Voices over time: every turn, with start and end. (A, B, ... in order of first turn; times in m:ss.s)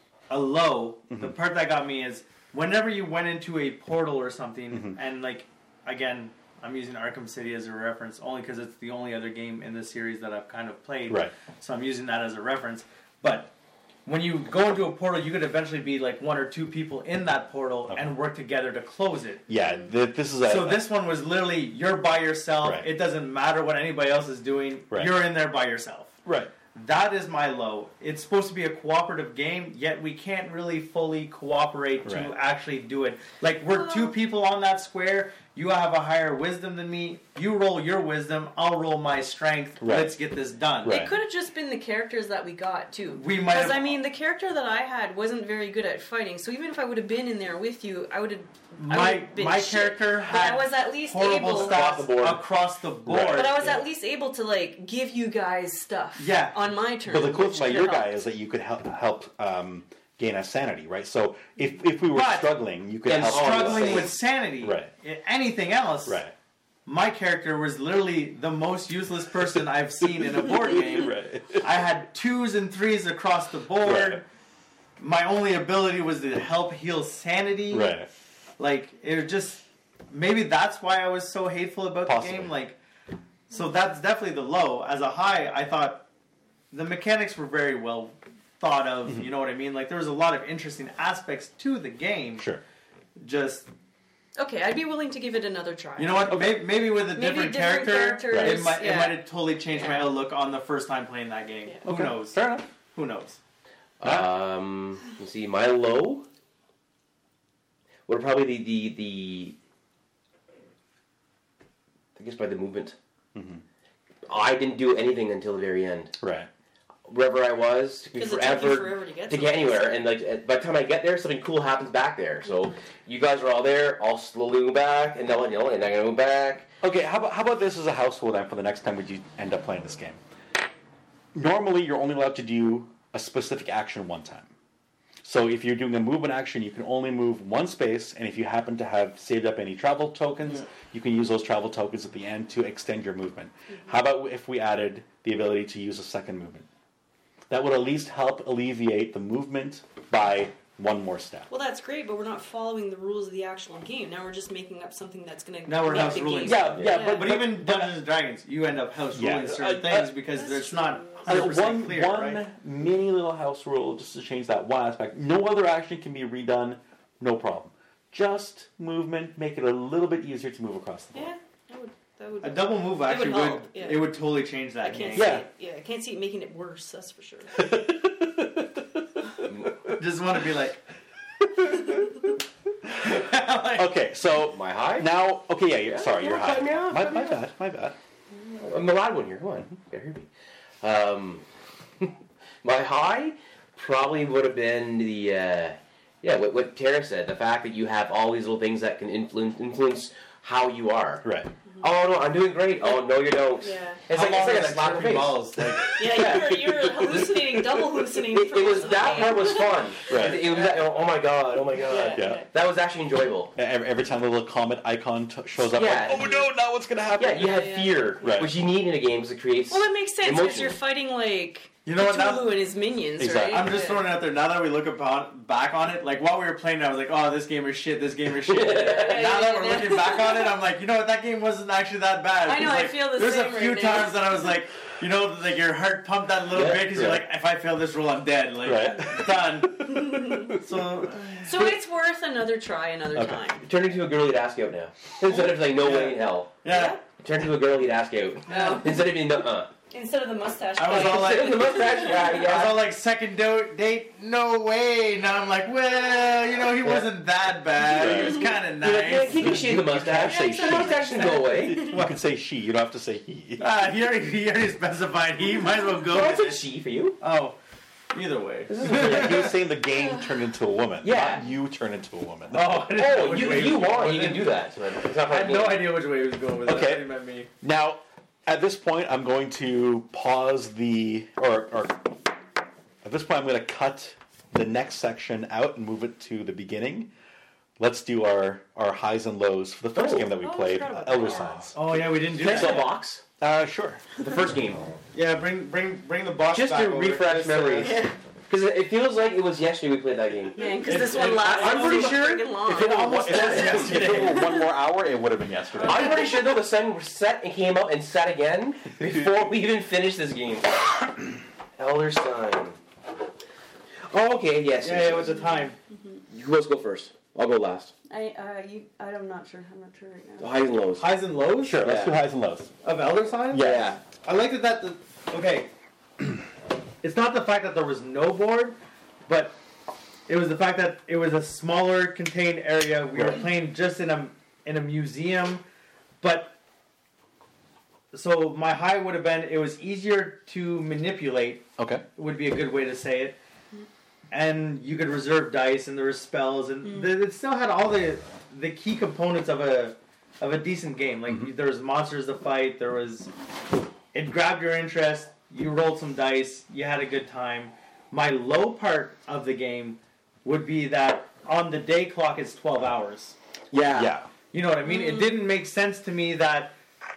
0:00.3-0:13.5 A
0:04.7-0:05.0 B
0:11.1-0:11.3 B
0:14.0-0:19.4 A
0:19.5-0:20.9 B
0:20.4-0:26.1 A
0:22.6-0:22.9 B
0:26.2-0:26.5 B
0:26.7-0:41.0 A
0:32.0-0:32.3 B
0:33.7-0:34.1 C
0:39.8-0:40.1 B
0:40.8-0:41.2 B
0:40.8-0:51.8 C
0:43.1-0:43.9 A
0:48.8-0:53.6 A
0:51.4-0:52.4 D
0:53.0-0:53.6 B
0:53.3-0:58.2 C
0:56.2-0:56.7 A
0:57.0-1:04.9 B
1:02.1-1:02.6 A
1:03.0-1:04.1 D
1:03.2-1:06.2 A
1:06.0-1:06.3 B
1:06.8-1:14.2 A
1:10.1-1:11.8 B
1:13.8-1:14.2 B
1:15.0-1:18.0 A
1:17.7-1:18.1 B
1:18.6-1:22.8 A
1:22.0-1:22.5 B
1:23.5-1:26.0 A
1:26.7-1:32.5 A
1:33.2-1:33.7 A
1:34.4-1:36.4 C
1:36.0-1:43.4 A
1:36.3-1:36.6 B
1:37.1-1:40.1 C
1:38.3-1:38.7 B
1:41.8-1:42.7 B
1:44.0-1:46.2 D
1:44.0-1:44.3 B
1:48.1-1:49.6 D
1:52.2-1:52.9 D
1:53.3-1:53.6 B
1:54.3-1:56.1 D
1:56.2-1:56.5 B
1:57.1-2:06.7 D
1:58.1-2:00.0 C
2:06.8-2:10.2 B
2:11.3-2:14.5 B
2:15.2-2:26.6 B
2:27.5-2:31.5 B
2:31.5-2:37.4 C
2:35.7-2:42.4 A
2:35.9-2:38.0 B
2:39.1-2:40.1 B
2:40.3-2:41.5 C
2:41.2-2:51.3 B
2:51.1-2:54.2 C
2:52.4-2:55.4 A
2:54.8-2:57.6 C
2:55.1-2:55.5 B
2:57.5-2:59.9 B
2:59.5-2:59.7 D
3:00.0-3:00.8 A
3:01.4-3:02.2 B
3:02.9-3:08.0 B
3:03.0-3:03.9 A
3:04.4-3:05.1 D
3:05.9-3:07.4 D
3:08.5-3:10.3 D
3:10.8-3:11.4 D
3:12.6-3:21.2 D
3:21.2-3:21.5 B
3:21.8-3:25.5 D
3:23.6-3:24.0 C
3:24.1-3:25.9 A
3:25.6-3:27.8 B
3:26.0-3:30.9 C
3:26.0-3:27.3 D
3:28.3-3:33.5 D
3:30.1-3:30.5 B
3:31.8-3:32.5 C
3:32.1-3:32.4 B
3:33.6-3:37.7 B
3:35.6-3:36.4 D
3:37.2-3:40.8 D
3:37.3-3:38.4 C
3:38.2-3:38.5 B
3:39.7-3:44.1 C
3:41.8-3:42.5 A
3:43.2-3:43.8 B
3:43.5-4:01.8 A
3:48.4-3:49.4 D
3:48.8-3:50.6 C
3:52.4-3:54.2 C
3:56.5-3:56.9 D
3:56.9-3:57.2 B
3:58.6-4:00.8 B
3:59.8-4:00.6 C
4:01.4-4:03.6 C
4:03.1-4:03.4 B
4:03.6-4:06.6 D
4:05.2-4:07.0 A
4:06.7-4:07.0 C
4:07.1-4:09.7 D
4:08.5-4:09.0 C
4:08.5-4:08.8 A
4:09.9-4:12.4 C
4:10.8-4:20.4 A
4:10.8-4:12.9 D
4:16.8-4:17.1 D
4:17.9-4:18.5 B
4:17.9-4:21.9 D
4:20.2-4:22.0 C
4:21.5-4:23.7 B
4:21.8-4:22.2 A
4:23.6-4:26.6 A
4:26.0-4:27.2 D
4:27.2-4:27.6 A
4:28.1-4:29.5 A
4:28.7-4:29.5 D
4:28.8-4:32.9 B
4:30.0-4:30.3 C
4:31.0-4:31.4 D
4:32.5-4:34.6 A
4:32.9-4:35.9 D
4:35.2-4:37.5 A
4:36.6-4:37.1 B
4:37.6-4:42.1 B
4:43.0-4:47.1 B
4:47.8-4:52.0 B
4:49.9-4:50.3 D
4:50.3-4:51.7 C
4:51.7-4:52.9 A
4:52.3-4:53.2 D
4:53.4-4:54.0 B
4:54.2-4:54.9 D
4:55.1-4:58.0 A
4:56.5-5:04.4 D
4:57.8-4:58.2 C
5:00.6-5:03.0 C
5:00.8-5:04.5 A
5:03.2-5:06.3 B
5:04.2-5:04.7 C
5:05.7-5:06.4 C
5:05.8-5:11.1 D
5:11.8-5:12.8 D
5:14.0-5:15.5 D
5:14.8-5:15.8 A
5:15.3-5:16.2 C
5:16.3-5:17.9 D
5:18.1-5:20.5 C
5:20.4-5:21.2 D
5:21.0-5:21.9 A
5:21.6-5:22.7 B
5:21.8-5:22.2 D
5:22.8-5:25.7 A
5:23.5-5:23.9 B
5:23.5-5:24.0 D
5:27.0-5:29.6 A
5:30.3-5:35.6 A
5:33.1-5:33.4 B
5:36.2-5:36.6 A
5:38.1-5:43.4 A
5:41.8-5:42.0 B
5:44.3-5:53.3 A
5:46.9-5:47.1 C
5:51.3-5:51.5 B
5:54.1-6:03.4 A
6:03.7-6:04.1 D
6:03.9-6:04.3 B
6:04.5-6:06.8 A
6:04.8-6:05.4 C